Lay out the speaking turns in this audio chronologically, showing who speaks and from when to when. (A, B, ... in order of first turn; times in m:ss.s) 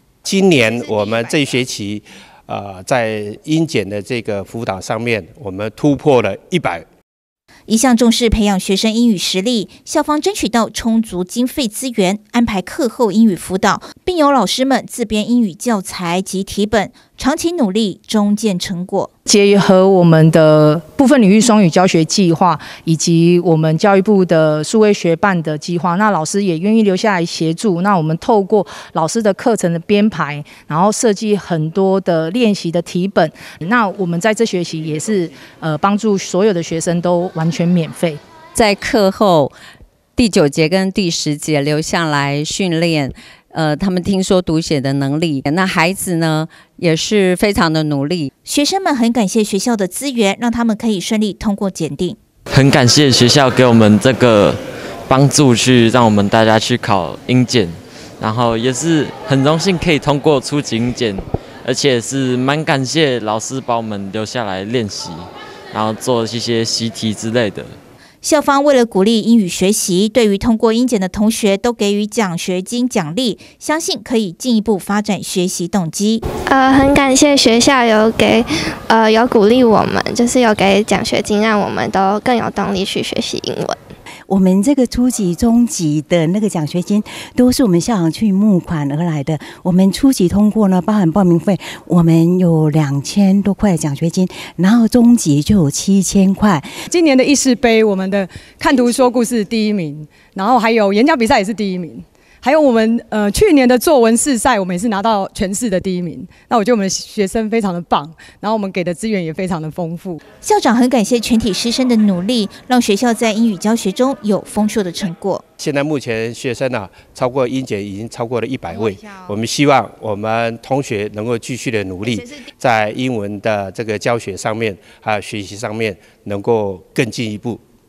0:00.2-0:06.8 A
0:07.7-0:19.1 B
0:19.3-0:38.2 C
0:38.5-0:39.5 D
0:40.2-0:48.3 D
0:48.4-0:52.2 B
0:52.5-0:54.6 E
0:55.1-1:07.7 E
1:08.2-1:16.2 B
1:16.4-1:23.8 F
1:24.3-1:36.7 G
1:36.9-1:50.2 H
1:50.4-1:55.4 B
1:55.6-2:07.6 A